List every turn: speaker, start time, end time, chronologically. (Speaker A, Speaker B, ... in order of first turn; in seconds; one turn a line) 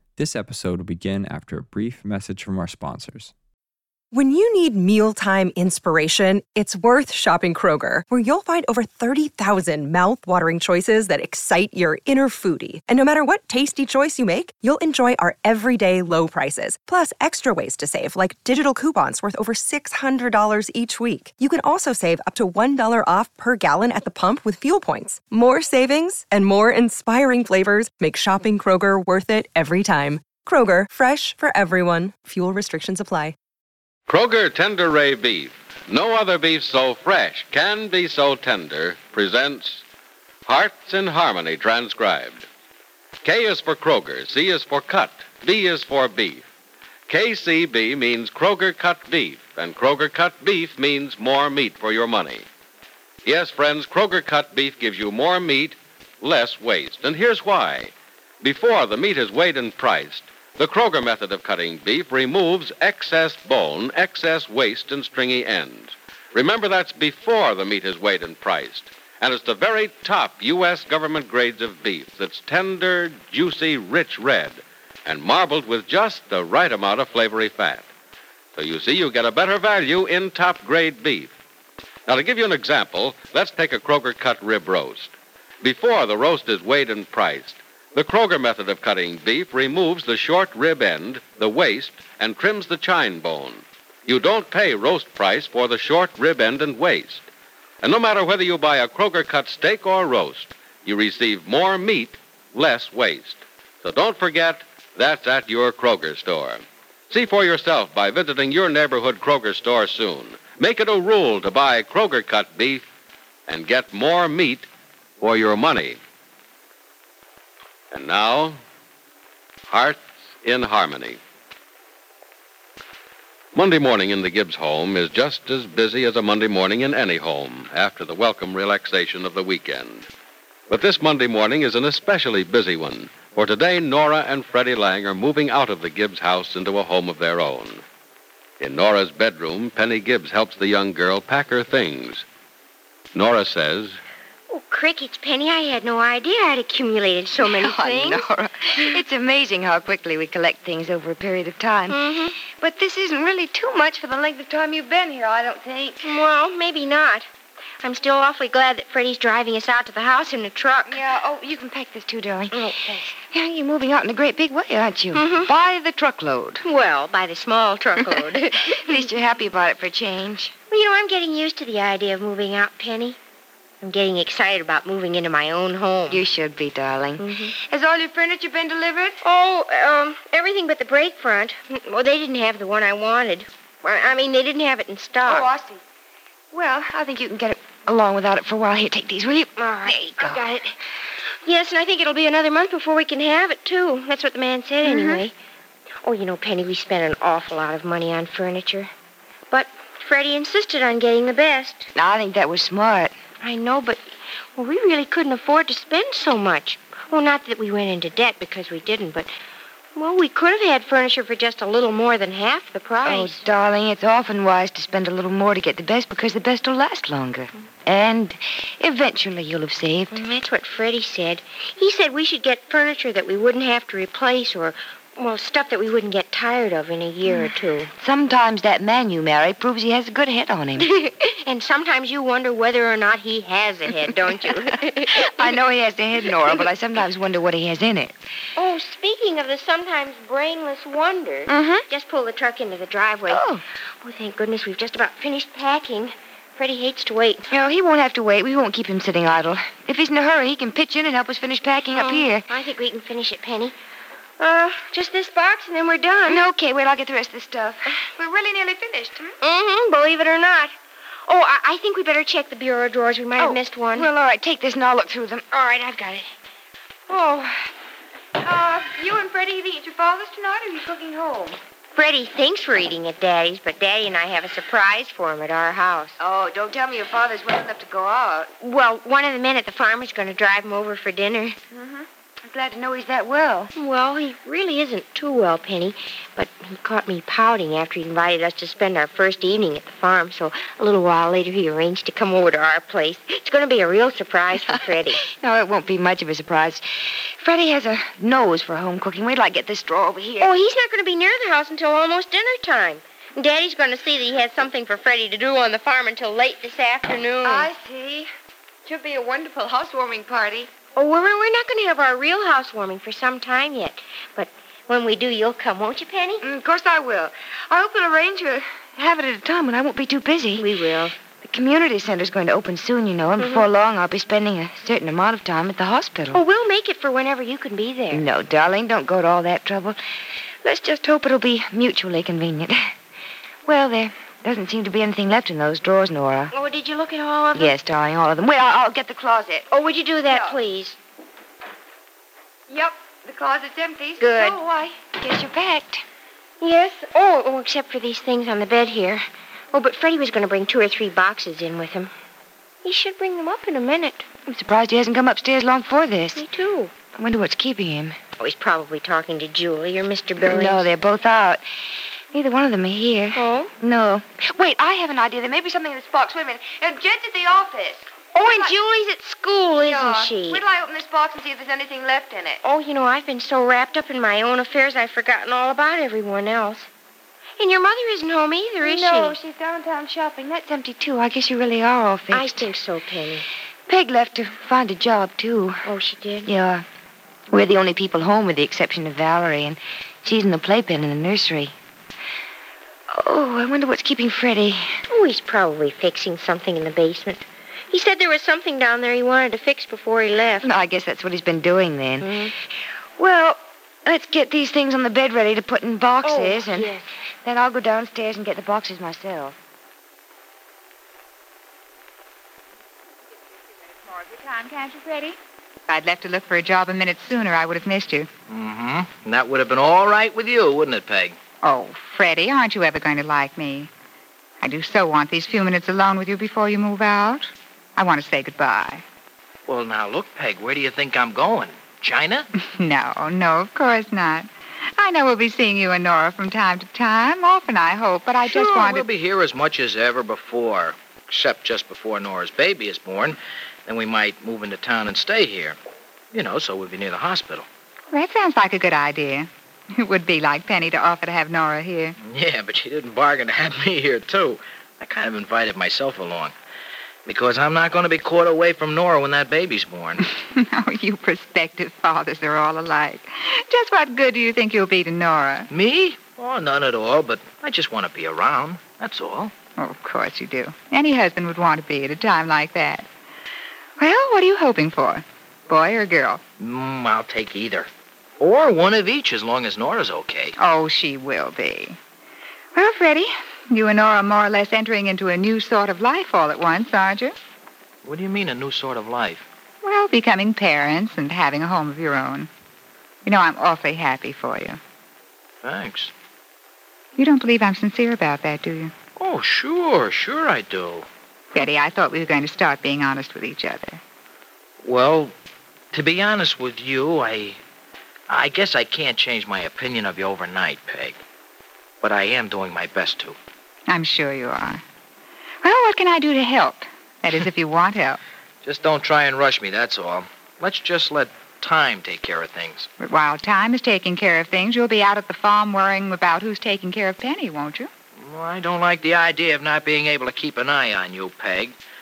Speaker A: 0.2-3.3
Speaker B: 4.1-33.4
Speaker C: 34.1-39.8
Speaker C: 40.5-42.5
Speaker C: 43.2-46.5
Speaker C: 47.1-52.5
Speaker C: 53.2-77.9
Speaker C: 78.5-81.3
Speaker C: 82.1-97.3
Speaker C: 97.8-112.8
Speaker C: 113.5-114.7
Speaker C: 115.2-116.0
Speaker C: 117.9-118.6
Speaker C: 119.7-121.2
Speaker C: 123.5-130.1
Speaker C: 130.7-137.8
Speaker C: 138.6-142.2
Speaker C: 143.1-144.0
Speaker D: 144.5-148.3
Speaker E: 147.4-156.2
Speaker D: 151.9-152.4
Speaker D: 156.0-157.3
Speaker D: 157.8-161.1
Speaker E: 160.9-166.7
Speaker D: 162.5-163.2
Speaker D: 165.1-165.5
Speaker D: 166.6-169.1
Speaker E: 168.8-170.6
Speaker D: 170.7-173.2
Speaker D: 173.8-176.3
Speaker E: 176.1-179.2
Speaker D: 177.2-177.5
Speaker D: 179.2-185.6
Speaker E: 185.2-185.8
Speaker E: 186.5-190.6
Speaker D: 189.6-190.7
Speaker D: 191.4-195.3
Speaker E: 194.8-195.2
Speaker D: 196.0-198.9
Speaker D: 199.5-201.9
Speaker E: 201.9-203.1
Speaker D: 203.4-204.0
Speaker D: 204.6-209.3
Speaker D: 209.9-213.5
Speaker E: 213.0-220.2
Speaker D: 220.1-227.9
Speaker E: 227.3-230.9
Speaker D: 230.8-235.5
Speaker E: 235.2-238.2
Speaker D: 236.3-236.7
Speaker D: 238.6-247.5
Speaker E: 241.5-241.8
Speaker E: 243.3-243.6
Speaker E: 247.5-252.5
Speaker D: 251.9-253.8
Speaker D: 254.4-256.5
Speaker E: 256.3-258.0
Speaker F: 258.4-258.8
Speaker E: 258.6-259.3
Speaker D: 259.4-260.7
Speaker D: 261.3-264.1
Speaker E: 263.4-266.2
Speaker E: 267.1-267.5
Speaker E: 268.4-271.6
Speaker D: 271.9-276.2
Speaker E: 276.2-278.5
Speaker D: 278.6-281.6
Speaker E: 281.7-283.7
Speaker D: 283.7-295.2
Speaker E: 295.3-296.8
Speaker E: 297.4-300.5
Speaker D: 300.4-307.7
Speaker E: 307.4-308.3
Speaker E: 308.9-310.7
Speaker D: 310.9-316.4
Speaker E: 316.4-320.7
Speaker D: 320.6-321.2
Speaker E: 321.4-326.4
Speaker D: 323.4-323.7
Speaker D: 326.3-328.3
Speaker E: 328.1-330.0
Speaker E: 330.6-332.8
Speaker E: 333.7-336.5
Speaker D: 336.5-337.8
Speaker E: 337.6-339.7
Speaker D: 339.7-341.0
Speaker E: 340.3-340.6
Speaker E: 342.7-346.0
Speaker D: 344.2-344.6
Speaker D: 346.6-352.1
Speaker D: 352.8-354.3
Speaker E: 354.5-356.4
Speaker D: 356.4-356.9
Speaker E: 357.1-358.2
Speaker D: 358.4-360.9
Speaker E: 360.4-361.6
Speaker E: 362.3-368.8
Speaker D: 363.3-363.7
Speaker D: 368.3-370.6
Speaker E: 369.8-372.6
Speaker D: 372.6-376.9
Speaker D: 377.6-379.4
Speaker E: 378.8-382.7
Speaker D: 382.3-383.5
Speaker E: 383.9-385.8
Speaker D: 385.9-386.5
Speaker E: 386.4-386.8
Speaker E: 387.5-391.7
Speaker E: 393.1-395.0
Speaker D: 395.1-400.7
Speaker E: 400.6-402.5
Speaker D: 402.2-402.5
Speaker E: 403.2-409.6
Speaker D: 406.2-407.0
Speaker F: 413.9-418.3
Speaker G: 418.5-421.4
Speaker F: 421.6-423.9
Speaker F: 424.6-429.0
Speaker G: 429.7-432.5
Speaker F: 432.6-439.1
Speaker G: 438.5-445.8
Speaker G: 446.3-447.7
Speaker F: 448.1-452.2
Speaker G: 452.2-456.5
Speaker G: 457.3-460.2
Speaker F: 460.3-465.7
Speaker G: 465.7-469.5
Speaker F: 469.8-473.1
Speaker F: 474.0-476.4
Speaker G: 476.6-477.9
Speaker G: 478.4-480.5
Speaker F: 480.6-482.0
Speaker F: 482.7-487.3
Speaker G: 488.1-489.5
Speaker F: 489.8-492.5
Speaker F: 493.2-494.8
Speaker G: 495.6-496.1
Speaker F: 497.2-498.9
Speaker G: 499.2-501.1
Speaker F: 501.5-504.0
Speaker G: 504.8-505.3
Speaker G: 505.9-507.6
Speaker G: 508.3-511.2
Speaker G: 512.0-513.4
Speaker F: 513.9-514.8
Speaker F: 515.6-518.2
Speaker G: 518.6-522.9
Speaker F: 523.0-527.9
Speaker G: 528.3-531.8